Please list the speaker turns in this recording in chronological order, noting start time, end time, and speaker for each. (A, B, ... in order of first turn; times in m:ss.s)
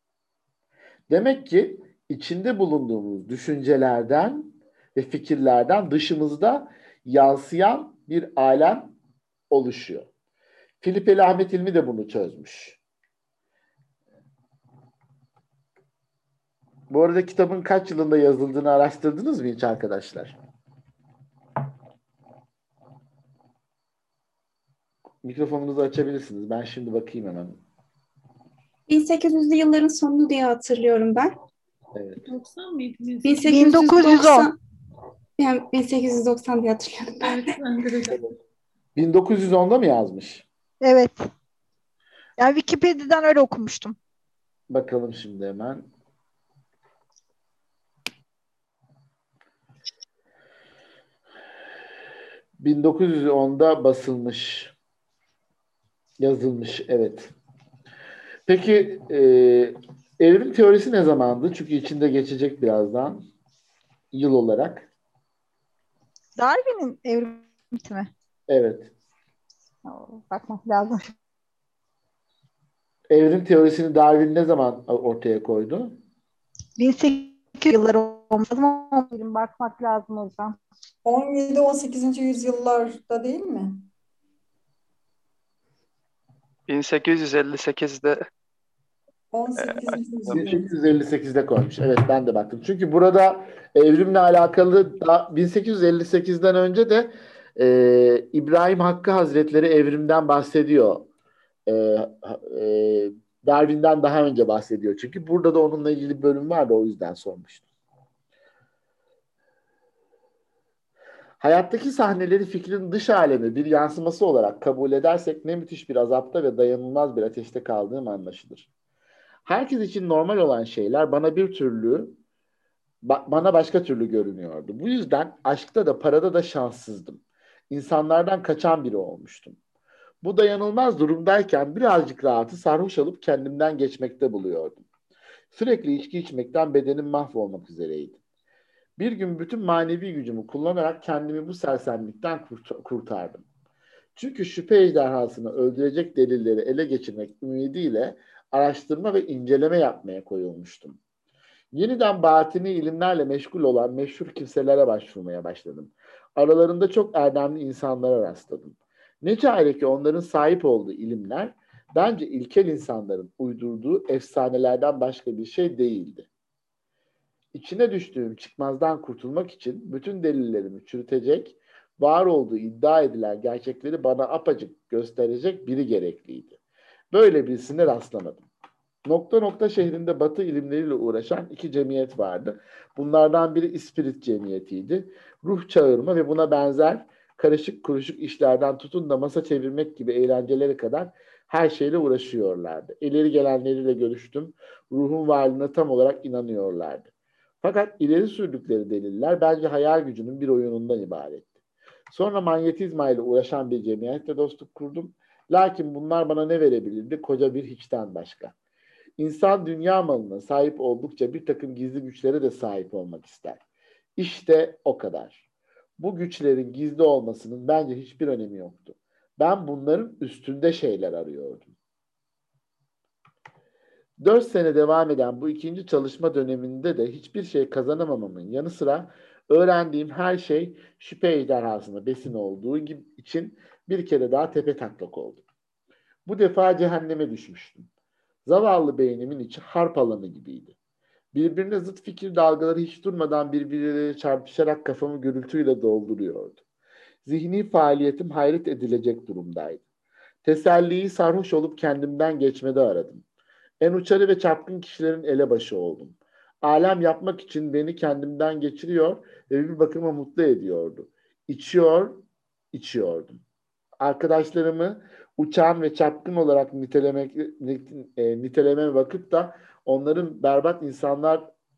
0:01.1-0:08.9 A
0:09.5-0:10.1 A
0:10.8-0:12.8 A
0:16.9-0:20.4 A
0:25.2-0:27.6 A
0:28.9-0:31.3 B
0:32.0-0:32.2 A
0:32.2-0:33.6 C
0:33.2-0:34.6 B
0:33.5-0:34.5 D
0:35.4-0:37.5 B
0:37.2-0:38.2 C
0:38.1-0:38.4 A
0:39.0-0:40.4 A
0:40.8-0:41.3 D
0:42.4-0:44.0 D
0:44.7-0:45.9 A
0:52.6-0:54.7 A
0:56.2-0:57.3 A
0:58.5-1:03.2 A
1:04.1-1:04.9 A
1:06.4-1:08.1 D
1:08.5-1:08.9 A
1:09.9-1:11.0 D
1:13.1-1:16.0 A
1:16.8-1:20.6 D
1:21.0-1:23.7 E
1:26.7-1:28.2 F
1:29.3-1:30.7 E
1:29.6-1:30.0 F
1:30.3-1:41.1 A
1:41.7-1:47.6 A
1:51.4-1:58.7 A
1:59.4-2:02.2 A
2:03.0-2:09.6 A
2:10.2-2:14.8 A
2:15.5-2:18.2 A
2:19.0-2:23.4 A
2:24.2-2:31.0 A
2:31.7-2:46.3 A
2:47.5-2:56.6 A
2:57.1-2:58.4 A
2:59.1-3:17.1 A
3:17.6-3:21.6 A
3:22.1-3:28.5 A
3:29.2-3:33.6 A
3:34.2-3:35.4 A
3:36.0-3:41.7 A
3:44.2-3:55.4 A
3:56.3-3:57.9 A
3:58.4-4:00.7 A
4:01.3-4:06.6 A
4:07.2-4:09.8 A
4:10.4-4:13.2 A
4:13.8-4:23.4 A
4:24.0-4:31.5 A